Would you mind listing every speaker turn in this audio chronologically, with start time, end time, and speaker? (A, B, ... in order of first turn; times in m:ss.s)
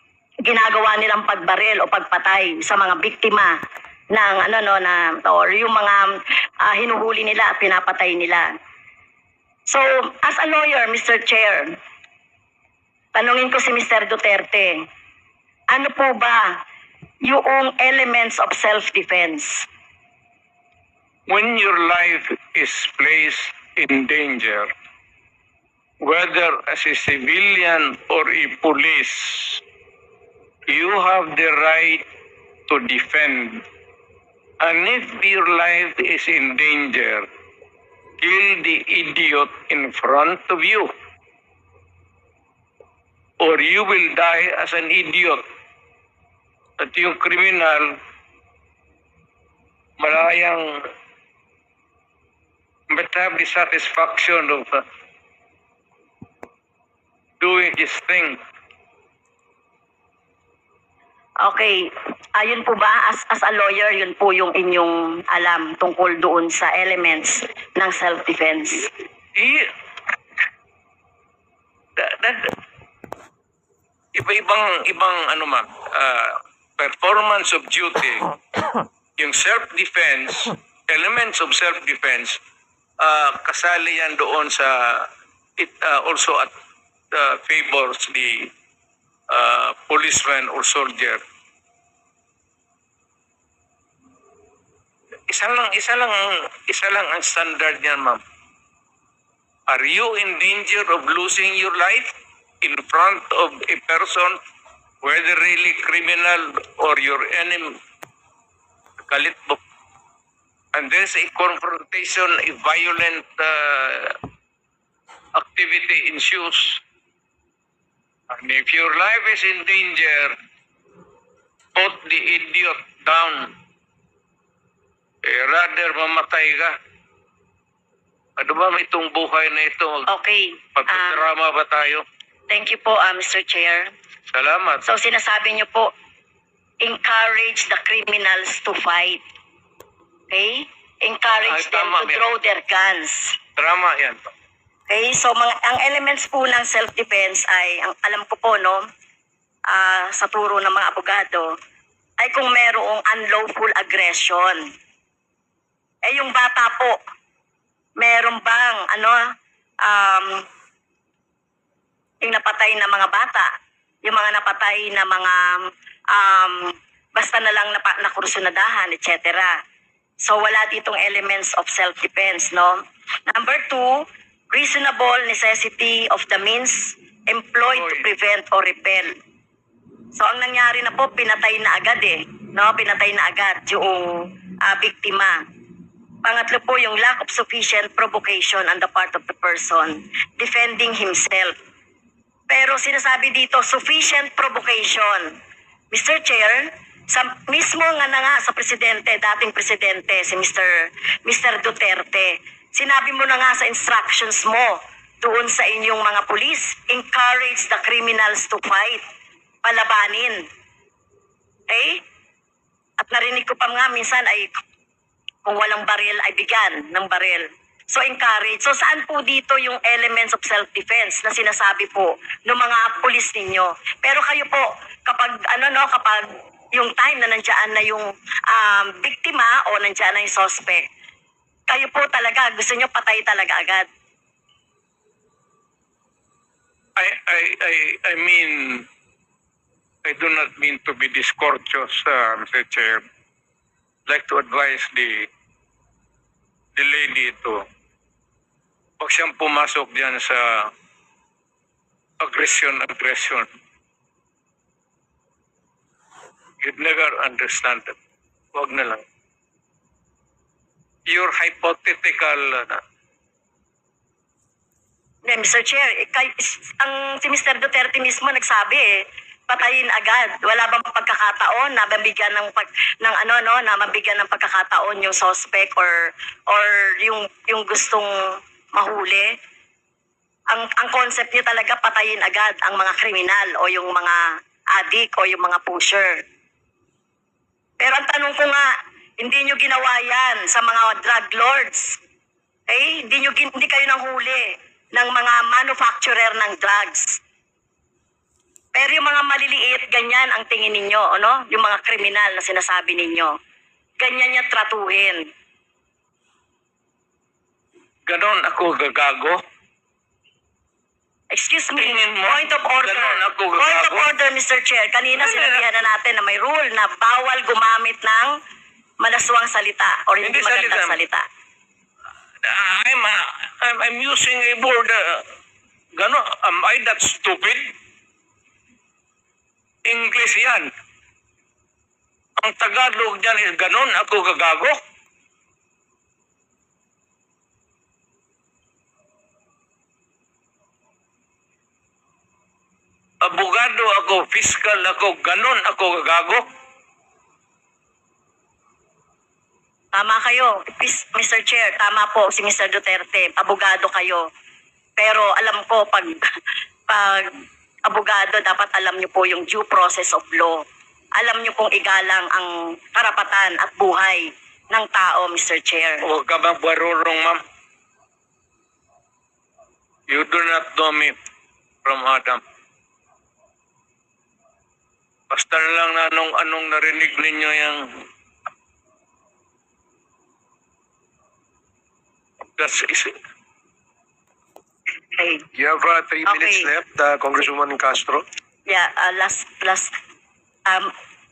0:00.4-0:03.5 A
0:04.1-0:06.1 A
0:06.6-0:08.5 A
0:09.7-0:11.8 A
0:13.1-0:14.8 A
0:15.7-0:16.6 A
0:17.2-0:19.7 A
0:21.3-0:24.7 B
0:26.0-0:29.6 B
0:30.7-0:32.0 B
0:32.7-0:33.6 B
0:34.6-0:37.3 B
0:38.2-0:40.9 B
0:43.4-0:45.4 B
0:46.8-0:48.0 B
0:50.0-0:50.7 B
0:52.9-0:54.8 B
0:57.4-0:58.4 B
1:01.4-1:08.9 A
1:09.4-1:09.7 B
1:12.0-1:12.5 B
1:14.1-1:18.3 B
1:19.2-1:22.4 B
1:23.0-1:26.5 B
1:27.1-1:28.5 B
1:29.3-1:31.2 B
1:35.3-1:38.2 B
1:39.7-1:44.4 B
1:45.0-1:47.8 B
1:49.1-1:49.6 B
1:50.7-1:54.2 B
1:55.4-1:56.8 B
1:58.3-2:00.4 B
2:01.8-2:03.5 B
2:05.2-2:06.7 B
2:08.4-2:10.1 B
2:10.1-2:11.2 A
2:10.8-2:12.0 B
2:12.5-2:13.9 A
2:14.3-2:14.8 B
2:14.8-2:15.9 A
2:16.8-2:19.2 A
2:20.3-2:23.4 A
2:21.4-2:22.3 B
2:23.6-2:24.2 B
2:24.9-2:28.8 A
2:29.7-2:31.5 A
2:32.2-2:34.6 A
2:36.0-2:37.0 A
2:38.0-2:39.2 A
2:39.8-2:40.4 A
2:42.2-2:43.5 A
2:44.0-2:45.6 A
2:46.1-2:49.6 A
2:50.2-2:59.2 A
2:57.7-2:58.1 B
3:00.2-3:05.4 A
3:06.2-3:11.5 A
3:12.5-3:15.4 A
3:15.9-3:29.0 A
3:29.6-3:30.4 A
3:31.7-3:32.0 A
3:33.0-3:34.6 A
3:35.4-3:50.9 A
3:51.7-3:53.9 A
3:57.0-3:58.9 B
4:00.0-4:03.0 B
4:04.1-4:05.3 B
4:06.8-4:07.6 B
4:09.0-4:10.7 B
4:12.2-4:13.5 B
4:16.6-4:18.0 B
4:18.6-4:19.0 B
4:21.1-4:22.8 B
4:25.2-4:38.1 A
4:38.7-4:39.3 A
4:40.5-4:44.2 A
4:44.8-4:46.2 A
4:47.8-4:48.7 A
4:49.2-4:52.0 A
4:52.7-4:57.2 A
4:58.7-5:03.4 A
5:04.0-5:05.3 A
5:08.1-5:09.4 B
5:11.3-5:18.3 A
5:11.8-5:14.1 B
5:15.2-5:15.7 B
5:19.0-5:21.2 A
5:20.2-5:21.0 B
5:22.4-5:25.2 B
5:26.0-5:27.7 B
5:29.8-5:30.7 B
5:32.4-5:34.8 B
5:43.2-5:46.5 B
5:49.9-5:54.3 A
5:55.0-5:56.2 A
5:56.9-5:57.3 A
5:57.9-6:00.6 A
6:01.2-6:06.1 A
6:06.0-6:07.4 B
6:10.1-6:11.2 B
6:11.8-6:12.4 B
6:15.3-6:17.9 B
6:22.6-6:23.1 B
6:25.2-6:25.4 A
6:25.6-6:28.2 C
6:26.3-6:26.7 A
6:28.7-6:29.9 A
6:30.7-6:30.9 A